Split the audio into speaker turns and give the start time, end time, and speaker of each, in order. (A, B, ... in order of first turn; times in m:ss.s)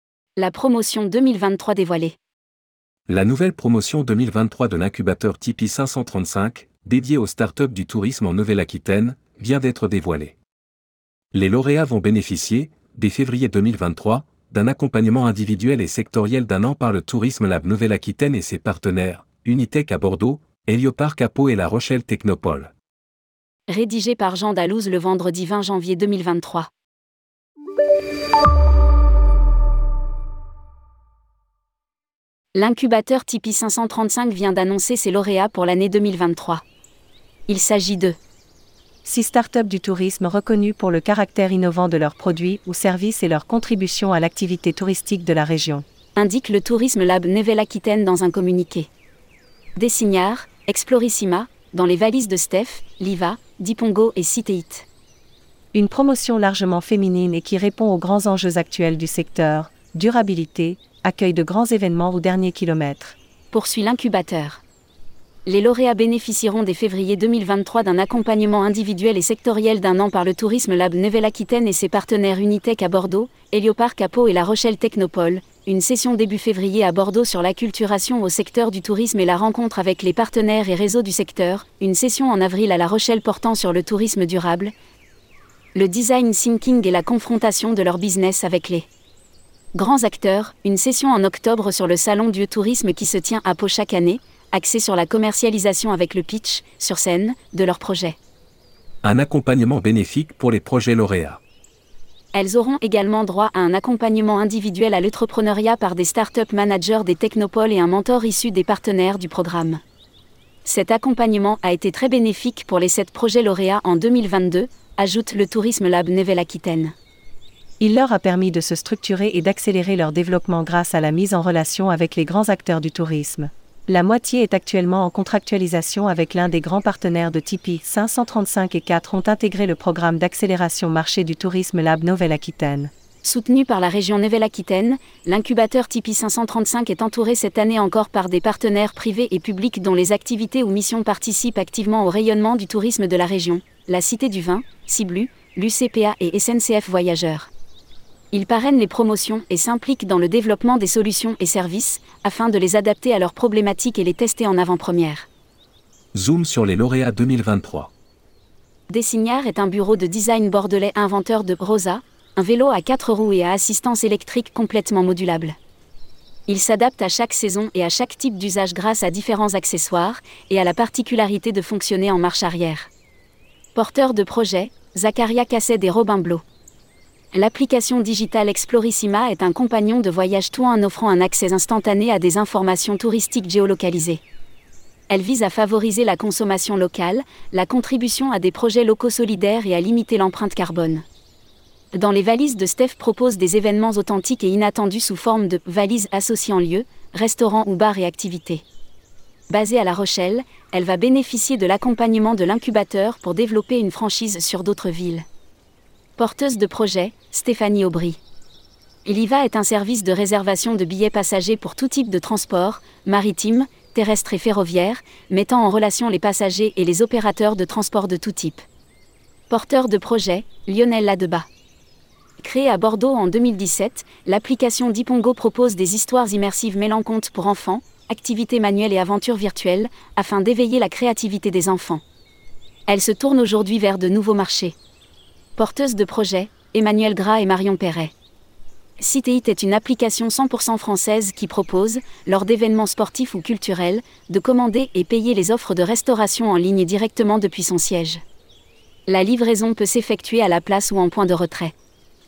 0:00.4-0:02.1 A
0:03.1-0:10.3 B
0:11.3-0:22.7 B
0:23.7-0:26.7 A
0:32.5-0:36.6 A
0:37.5-0:38.2 A
0:39.0-0:45.8 C
0:46.2-0:48.9 A
0:49.8-0:54.9 A
0:55.7-1:03.2 C
1:03.5-1:04.6 A
1:05.4-1:24.7 A
1:25.7-1:28.9 A
1:29.7-1:38.2 A
1:39.0-1:41.4 B
1:42.3-1:49.8 A
1:50.6-1:56.9 A
1:57.8-2:12.9 C
2:13.2-2:27.5 A
2:28.3-2:35.3 A
2:36.1-2:37.9 B
2:38.9-2:45.6 A
2:46.5-2:52.9 A
2:53.7-2:56.4 A
2:57.3-3:04.2 A
3:05.1-3:11.0 A
3:11.9-3:18.6 A
3:19.5-3:25.2 A
3:26.2-3:28.2 A
3:29.0-3:38.6 A
3:39.5-3:41.5 A
3:42.4-3:52.0 A
3:52.9-3:54.8 A
3:55.6-3:58.1 A
3:59.0-4:08.2 A
4:09.1-4:11.7 A